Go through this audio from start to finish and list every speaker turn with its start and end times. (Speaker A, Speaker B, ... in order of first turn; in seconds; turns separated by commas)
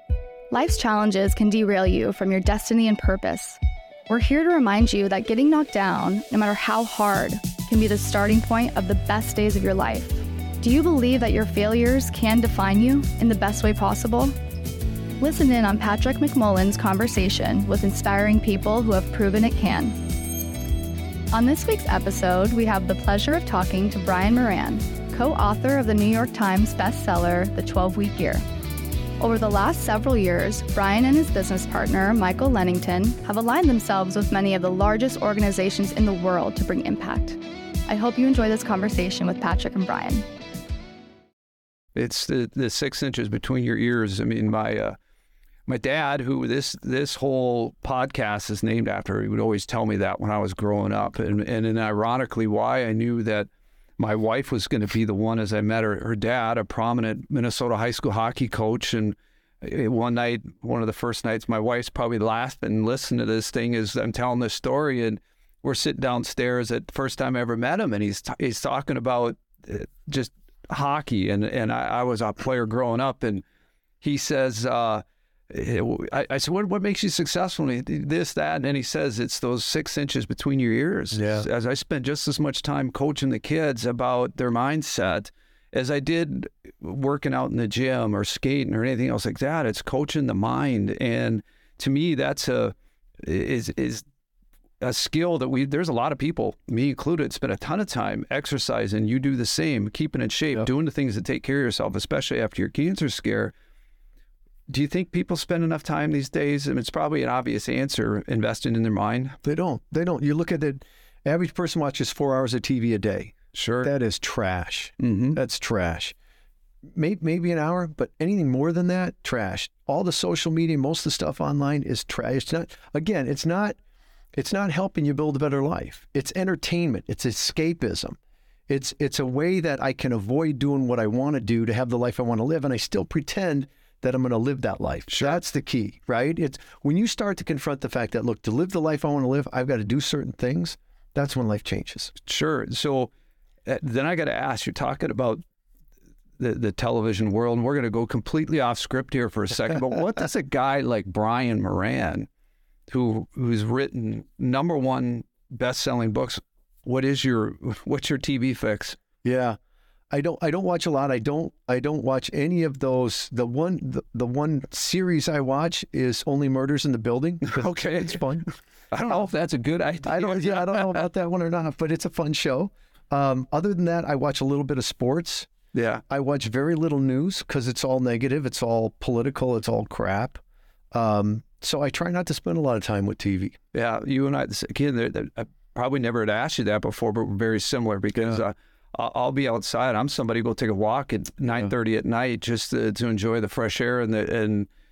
Speaker A: 0.5-14.3, Speaker A: 15.2-19.9, Speaker A: 21.3-28.4, Speaker A: 29.2-40.2, Speaker B: 41.9-45.0, Speaker B: 45.7-73.4, Speaker B: 74.0-94.0, Speaker C: 81.1-81.5, Speaker B: 94.8-103.5, Speaker B: 104.7-109.4, Speaker C: 109.4-116.1, Speaker B: 113.5-113.9, Speaker B: 115.0-115.4, Speaker C: 116.9-123.8, Speaker C: 124.3-142.1, Speaker B: 135.1-135.4, Speaker B: 142.2-143.1, Speaker B: 143.7-145.4, Speaker B: 146.4-152.3, Speaker B: 152.9-159.0, Speaker C: 159.2-159.6, Speaker C: 160.1-168.5, Speaker B: 167.5-168.2, Speaker B: 168.9-171.0, Speaker C: 170.0-175.5, Speaker B: 175.7-176.0, Speaker C: 176.1-180.4, Speaker C: 180.9-183.6, Speaker B: 183.7-194.7, Speaker C: 188.2-188.4